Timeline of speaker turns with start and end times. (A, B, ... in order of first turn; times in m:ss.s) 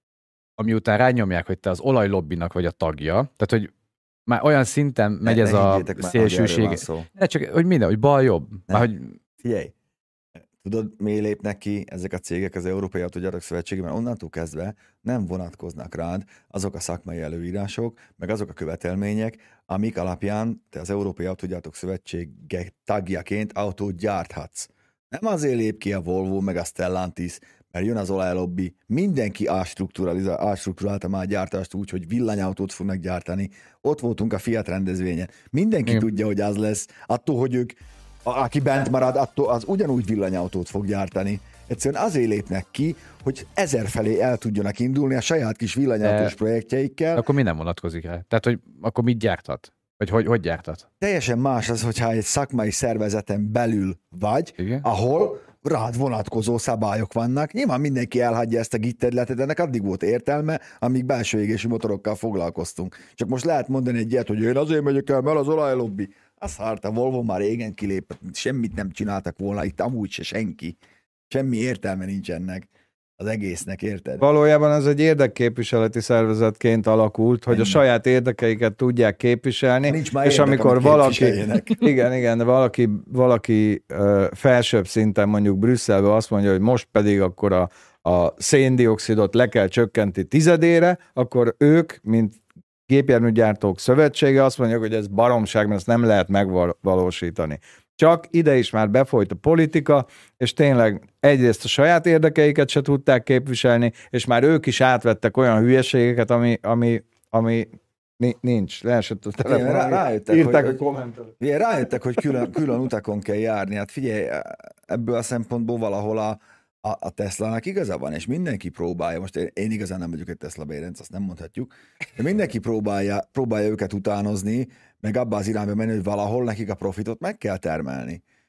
0:00.6-0:03.7 A
0:04.3-0:09.2 A
0:05.2-0:07.1 B
0:09.4-0:09.7 B
0:10.4-0:47.2 B
0:46.0-0:46.3 A
0:47.2-0:50.9 A
0:51.0-1:10.8 B
0:54.6-0:54.8 A
1:11.3-1:12.7 B
1:13.2-1:14.2 B
1:14.2-1:51.3 C
1:17.5-1:17.8 B
1:19.9-1:21.8 B
1:49.4-1:50.8 B
1:51.4-2:08.2 B